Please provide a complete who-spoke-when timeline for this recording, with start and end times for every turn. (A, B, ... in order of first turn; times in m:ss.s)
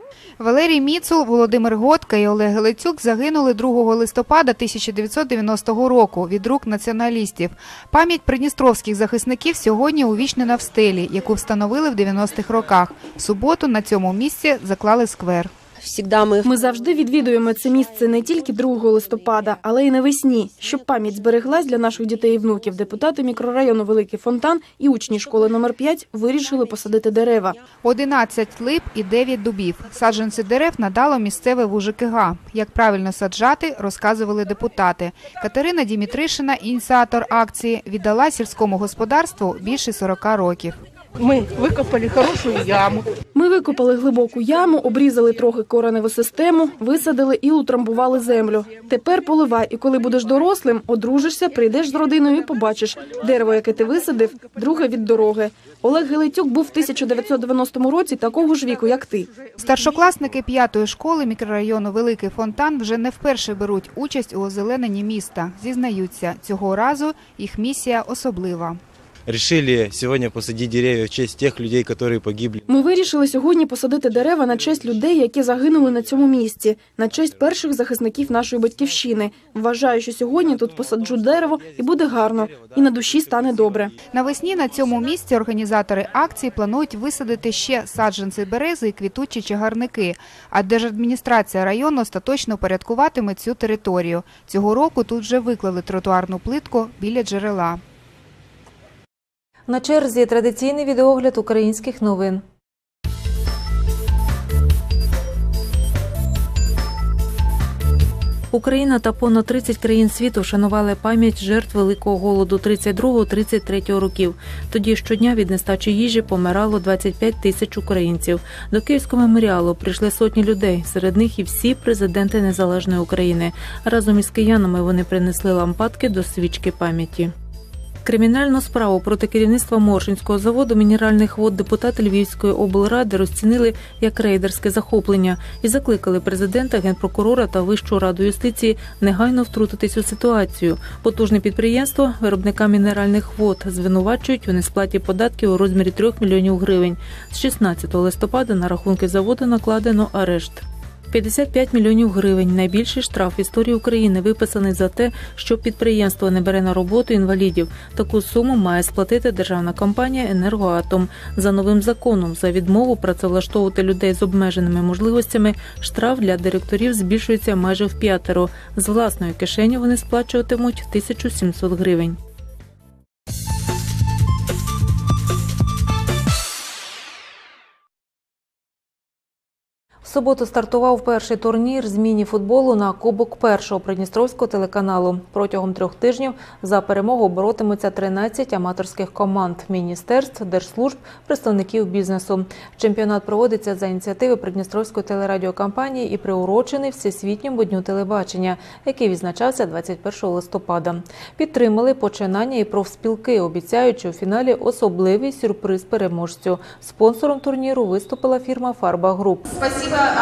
0:00.4-0:15.5 A
0:15.8-0:16.5 B
0:16.5-0:27.6 C
0:27.8-0:40.8 A
0:41.2-0:43.0 B
0:43.3-0:59.3 C
0:59.6-1:08.8 A
1:09.3-1:12.6 D
1:12.7-1:23.9 C
1:24.1-1:37.8 A
1:39.7-1:42.4 E
1:48.5-2:07.3 E
2:08.0-2:52.2 E
3:00.0-3:29.5 E